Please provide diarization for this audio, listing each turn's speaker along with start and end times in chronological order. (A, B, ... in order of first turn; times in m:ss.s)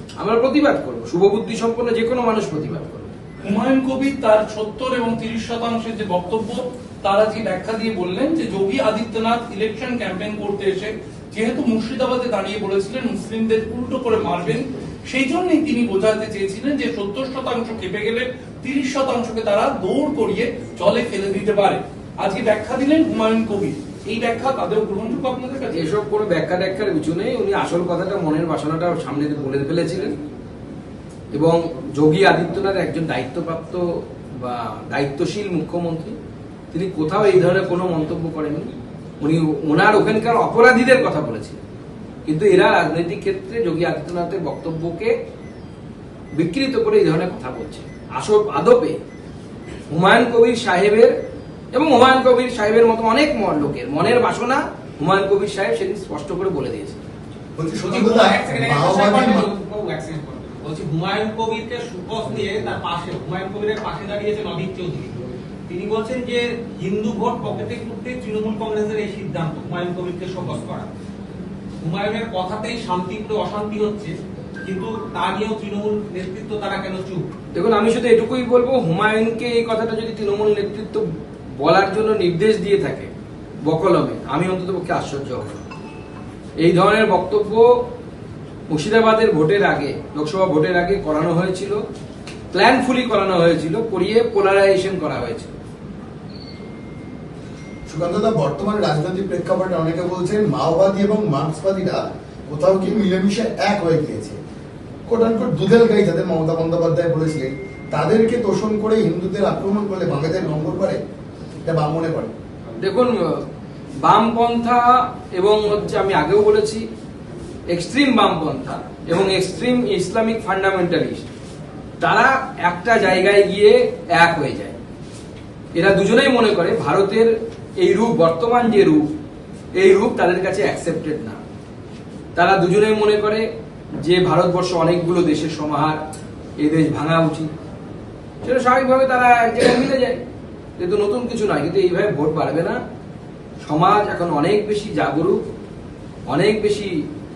0:00.2-0:03.2 A
0:03.4-0:25.9 B
0:25.7-0:30.2 A
0:31.3-0:33.8 A
0:34.4-0:36.2 A
0:36.7-0:38.7 A
0:39.2-0:41.6 A
0:42.3-0:45.1 A
0:46.4-0:49.0 A
0:49.9-0:51.1 A
0:51.7-0:57.1 A
0:57.6-0:59.5 C
0:57.9-1:10.9 D
1:11.8-1:17.3 D
1:17.5-1:21.1 A
1:21.6-1:23.1 A
1:23.6-1:25.6 A
1:26.6-1:27.7 A
1:28.7-1:31.8 A
1:32.5-1:35.5 A
1:37.9-1:44.4 C
1:45.1-1:51.0 C
1:51.6-1:52.3 C
1:52.8-1:53.4 A
1:54.0-1:56.9 A
1:57.7-2:01.3 A
2:02.0-2:04.8 A
2:05.8-2:09.1 A
2:09.8-2:11.4 A
2:12.4-2:13.5 A
2:14.0-2:16.0 A
2:16.6-2:17.5 A
2:18.4-2:20.2 A
2:20.8-2:22.8 A
2:23.6-2:25.4 A
2:26.3-2:27.0 A